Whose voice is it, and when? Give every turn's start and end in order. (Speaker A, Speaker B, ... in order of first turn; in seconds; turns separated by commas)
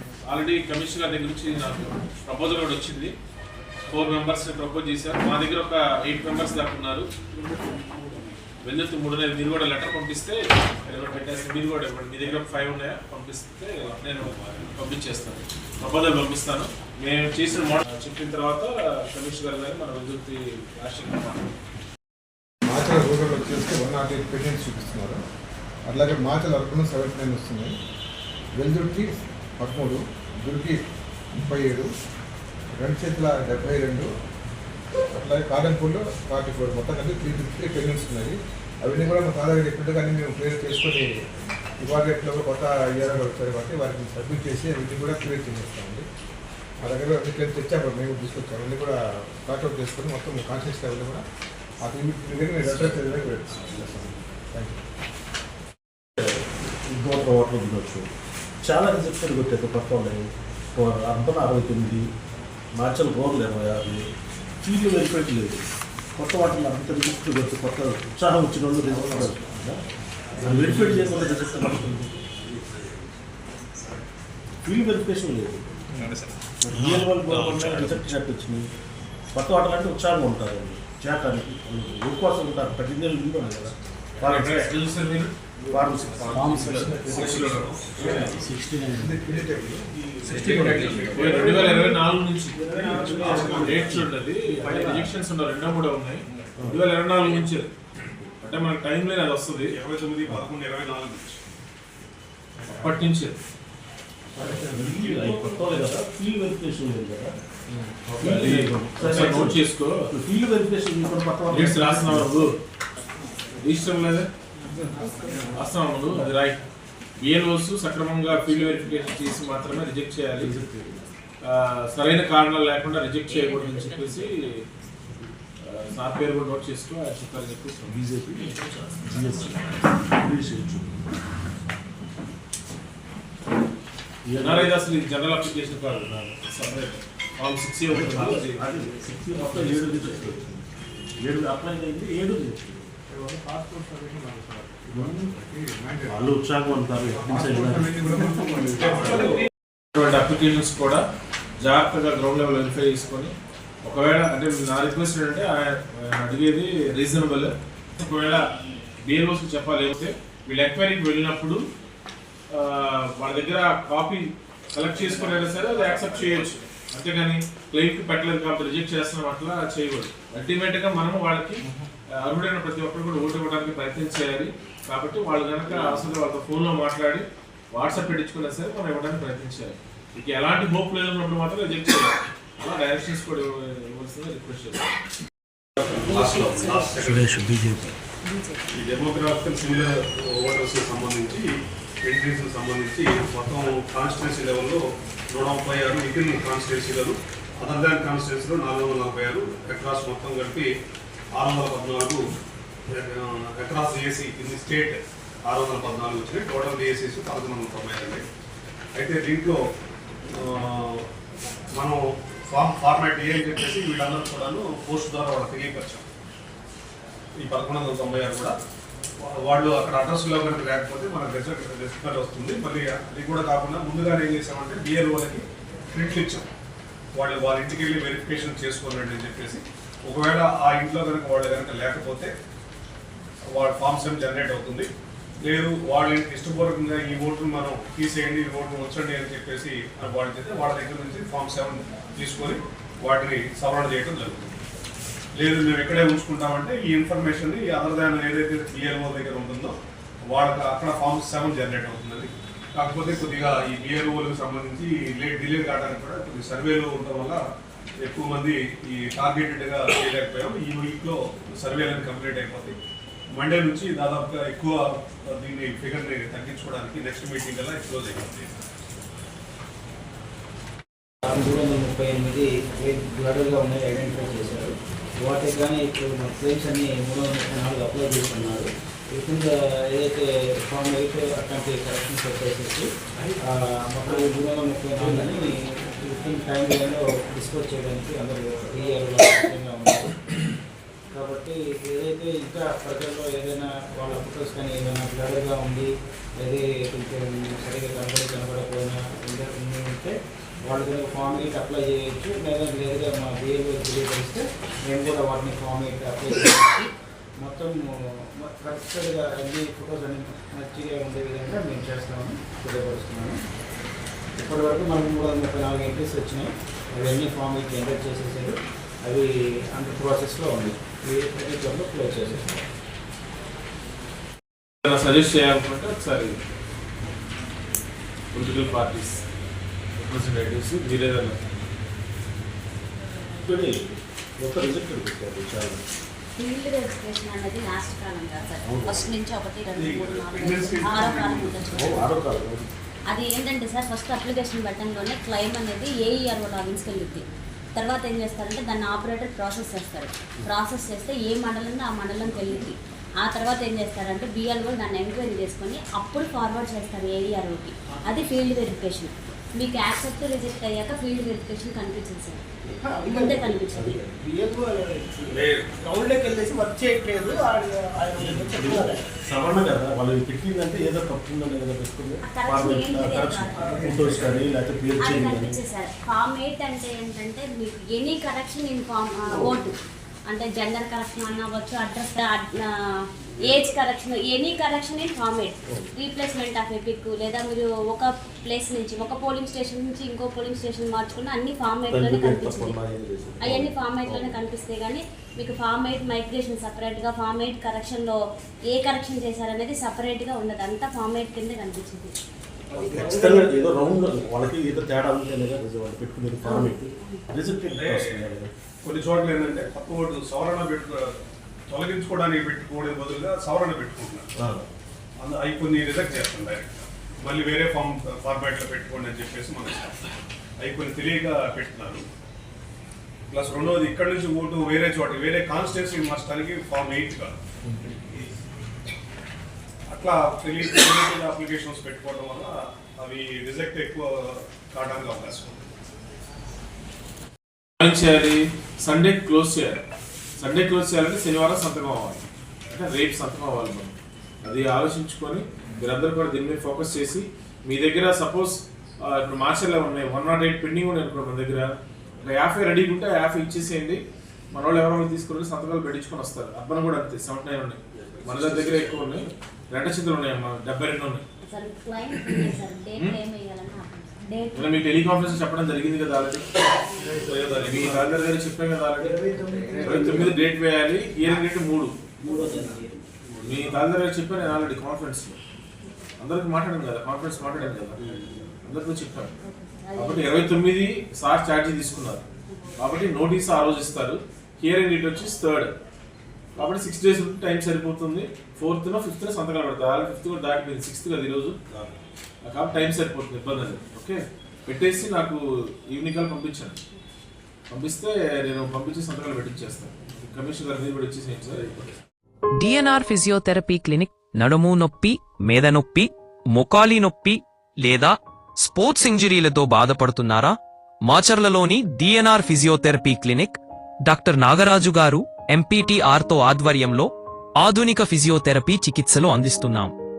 Speaker A: 0.3-3.1, Speaker A: 3.9-7.1, Speaker A: 8.6-21.5, Speaker B: 22.7-25.2, Speaker B: 25.9-27.7, Speaker B: 28.6-30.8, Speaker B: 31.4-31.9, Speaker B: 32.8-34.1, Speaker B: 35.2-41.1, Speaker B: 41.8-46.0, Speaker B: 46.8-51.2, Speaker B: 51.8-54.8, Speaker C: 56.2-58.1, Speaker C: 58.6-62.0, Speaker C: 62.7-64.0, Speaker C: 64.6-69.8, Speaker C: 70.4-72.3, Speaker C: 74.6-75.6, Speaker C: 76.6-78.7, Speaker C: 79.3-84.7, Speaker A: 84.2-85.3, Speaker C: 85.7-87.2, Speaker A: 86.2-88.2, Speaker B: 86.5-87.4, Speaker D: 87.1-87.9, Speaker C: 88.0-89.2, Speaker B: 88.0-89.9, Speaker C: 90.0-91.5, Speaker B: 90.4-91.1, Speaker A: 91.2-92.6, Speaker E: 91.3-92.0, Speaker E: 92.5-93.8, Speaker C: 92.8-94.0, Speaker A: 93.1-97.7, Speaker D: 93.2-93.6, Speaker C: 94.7-95.1, Speaker C: 96.6-96.8, Speaker A: 98.4-99.8, Speaker D: 99.7-101.5, Speaker A: 102.7-103.4, Speaker C: 104.4-107.3, Speaker B: 104.4-105.6, Speaker B: 107.7-108.2, Speaker C: 108.2-109.6, Speaker A: 108.2-110.0, Speaker C: 110.1-112.3, Speaker A: 111.5-112.5, Speaker A: 113.6-114.3, Speaker A: 115.5-116.6, Speaker A: 117.2-120.5, Speaker C: 120.4-121.0, Speaker A: 121.5-124.5, Speaker F: 123.3-124.3, Speaker A: 125.7-128.0, Speaker C: 127.9-131.1, Speaker C: 134.3-134.8, Speaker A: 134.4-138.6, Speaker C: 136.1-136.4, Speaker C: 137.9-140.7, Speaker A: 139.4-139.8, Speaker C: 141.2-142.9, Speaker B: 143.1-146.3, Speaker C: 144.9-145.2, Speaker C: 146.1-148.2, Speaker B: 147.1-149.4, Speaker A: 149.1-149.3, Speaker A: 149.9-151.0, Speaker A: 151.6-153.3, Speaker A: 153.8-158.4, Speaker A: 159.1-161.6, Speaker A: 162.5-171.7, Speaker A: 172.2-185.0, Speaker D: 185.8-187.3, Speaker F: 186.0-187.0, Speaker C: 187.0-187.9, Speaker F: 188.2-188.7, Speaker D: 188.7-191.5, Speaker D: 192.0-194.8, Speaker D: 195.3-200.7, Speaker D: 201.4-202.2, Speaker D: 203.0-208.2, Speaker D: 209.0-209.6, Speaker D: 210.4-211.1, Speaker D: 211.8-216.1, Speaker D: 217.4-218.6, Speaker D: 219.3-226.5, Speaker D: 227.2-232.3, Speaker D: 233.6-234.9, Speaker D: 235.4-244.5, Speaker D: 245.4-249.8, Speaker D: 250.3-257.4, Speaker D: 258.1-262.8, Speaker D: 263.4-268.5, Speaker G: 271.3-282.9, Speaker G: 283.6-290.1, Speaker G: 291.1-295.9, Speaker G: 296.4-300.1, Speaker G: 300.6-306.9, Speaker G: 307.4-307.8, Speaker G: 308.4-313.4, Speaker G: 314.4-322.6, Speaker A: 324.8-326.4, Speaker A: 328.3-329.2, Speaker A: 330.0-331.4, Speaker C: 333.4-335.9, Speaker F: 336.4-342.2, Speaker C: 338.6-339.2, Speaker D: 339.8-341.8, Speaker C: 341.8-342.7, Speaker F: 343.1-362.4, Speaker E: 362.7-369.1, Speaker F: 363.0-364.0, Speaker C: 363.8-364.0, Speaker C: 368.1-375.6, Speaker F: 372.2-373.6, Speaker E: 373.5-374.4, Speaker F: 374.9-379.8, Speaker F: 380.3-382.7, Speaker F: 383.4-392.8, Speaker C: 391.9-394.4, Speaker F: 393.4-398.2, Speaker F: 398.7-402.1, Speaker E: 402.7-404.1, Speaker C: 402.7-408.5, Speaker F: 406.4-407.2, Speaker D: 407.7-408.2, Speaker D: 408.8-414.3, Speaker C: 414.4-414.7, Speaker D: 415.2-420.0, Speaker D: 420.6-422.0, Speaker D: 423.3-427.4, Speaker D: 429.9-435.6, Speaker A: 437.8-439.8, Speaker A: 440.4-454.0, Speaker A: 454.5-461.2, Speaker C: 458.0-459.2, Speaker F: 461.4-464.8, Speaker A: 464.5-466.6, Speaker E: 467.2-467.8, Speaker A: 467.5-469.2, Speaker E: 469.1-470.3, Speaker G: 469.7-469.9, Speaker A: 469.8-471.9, Speaker G: 472.4-472.9, Speaker E: 472.4-472.8, Speaker A: 473.4-475.4, Speaker A: 476.2-478.0, Speaker A: 478.6-479.4, Speaker F: 479.8-480.4, Speaker A: 479.9-482.2, Speaker A: 482.8-485.7, Speaker A: 486.6-491.6, Speaker A: 492.5-496.8, Speaker A: 497.7-501.9, Speaker H: 502.6-517.1, Speaker H: 517.6-519.9